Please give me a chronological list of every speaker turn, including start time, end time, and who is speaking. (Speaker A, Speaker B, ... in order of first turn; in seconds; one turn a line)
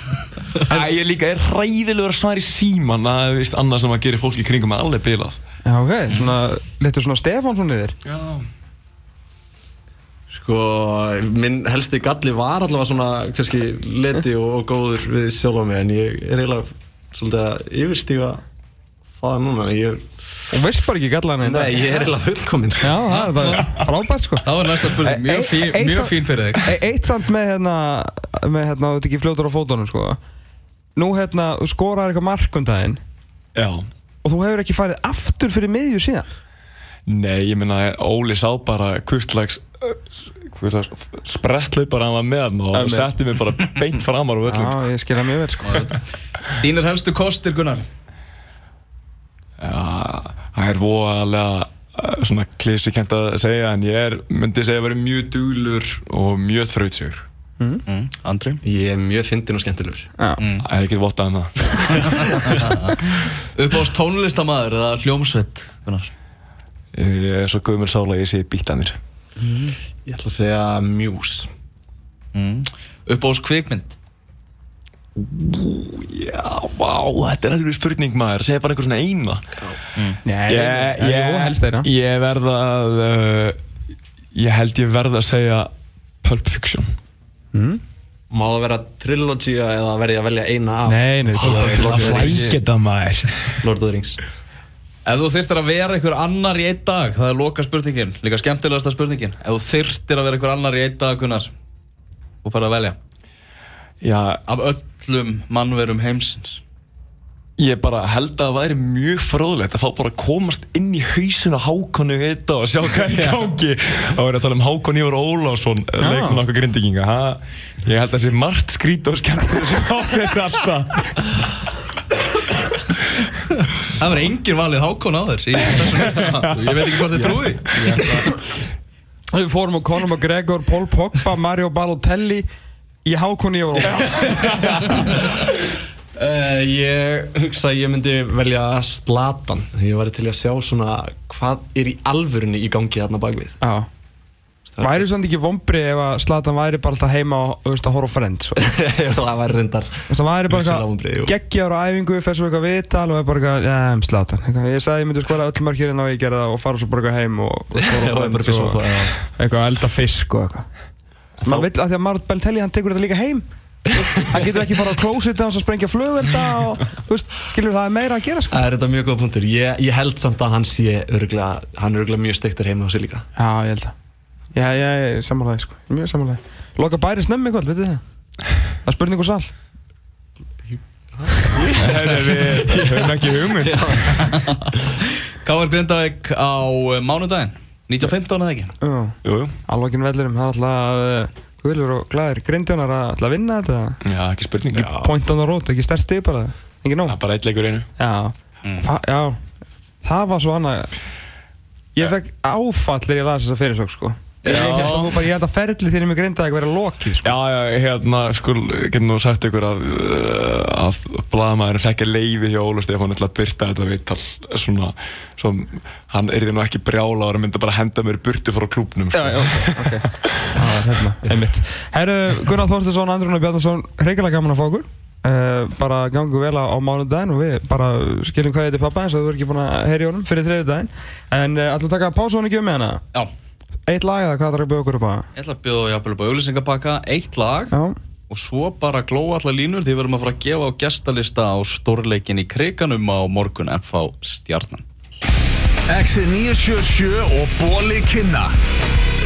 Speaker A: 0.5-5.4
Speaker B: 5.7-8.0
Speaker A: 8.1-8.5
Speaker C: 10.3-18.4
Speaker C: 19.1-20.1
Speaker B: 20.5-21.8
Speaker C: 21.4-23.1
Speaker B: 22.8-24.4
Speaker D: 23.1-23.8
Speaker D: 24.4-26.7
Speaker B: 25.0-30.2
Speaker B: 31.0-33.0
Speaker A: 33.5-33.9
Speaker B: 34.2-36.3
Speaker A: 37.1-44.9
Speaker B: 42.7-43.1
Speaker B: 44.5-45.9
Speaker D: 45.6-47.8
Speaker A: 49.6-57.2
Speaker D: 57.9-58.6
Speaker C: 58.6-60.1
Speaker D: 60.4-60.7
Speaker A: 60.6-62.3
Speaker C: 62.1-62.5
Speaker D: 62.5-66.1
Speaker A: 66.9-69.0
Speaker C: 70.0-71.5
Speaker D: 72.3-73.9
Speaker A: 75.2-79.6
Speaker B: 80.2-81.9
Speaker A: 80.5-83.6
Speaker A: 84.3-85.7
Speaker A: 86.2-86.9
Speaker B: 87.5-87.8
Speaker C: 88.3-92.5
Speaker B: 90.9-92.5
Speaker A: 91.4-93.6
Speaker D: 91.4-92.5
Speaker C: 93.6-94.2
Speaker D: 95.0-101.5
Speaker D: 102.4-103.0
Speaker A: 104.0-104.4
Speaker D: 104.5-106.6
Speaker A: 107.6-121.6
Speaker D: 113.0-113.4
Speaker B: 116.0-116.4
Speaker D: 123.9-128.1
Speaker A: 126.2-126.5
Speaker C: 127.2-128.3
Speaker A: 127.7-128.1
Speaker B: 129.3-132.5
Speaker B: 133.1-134.8
Speaker C: 133.8-135.6
Speaker A: 134.2-135.0
Speaker C: 136.2-143.6
Speaker B: 143.6-143.9
Speaker C: 144.7-145.1
Speaker B: 144.8-148.7
Speaker C: 148.6-151.3
Speaker B: 150.1-160.7
Speaker C: 157.7-159.1
Speaker C: 161.4-161.7
Speaker B: 161.4-163.5
Speaker C: 164.0-164.4
Speaker B: 164.0-168.6
Speaker C: 168.5-173.2
Speaker B: 173.4-173.9
Speaker B: 174.5-178.0
Speaker B: 178.8-179.5
Speaker C: 180.7-182.1
Speaker A: 181.7-184.3
Speaker C: 183.6-184.3
Speaker D: 184.2-184.5
Speaker D: 185.4-188.8
Speaker B: 188.8-194.0
Speaker A: 189.2-189.6
Speaker A: 194.1-195.1
Speaker B: 194.8-197.2
Speaker A: 197.1-197.9
Speaker B: 198.0-199.4
Speaker B: 200.0-200.9
Speaker B: 201.9-207.3
Speaker A: 204.4-205.1
Speaker A: 207.2-220.6
Speaker B: 219.1-233.0
Speaker B: 233.9-235.3
Speaker D: 235.4-237.7
Speaker B: 237.7-238.0
Speaker D: 238.3-244.8
Speaker E: 245.9-248.5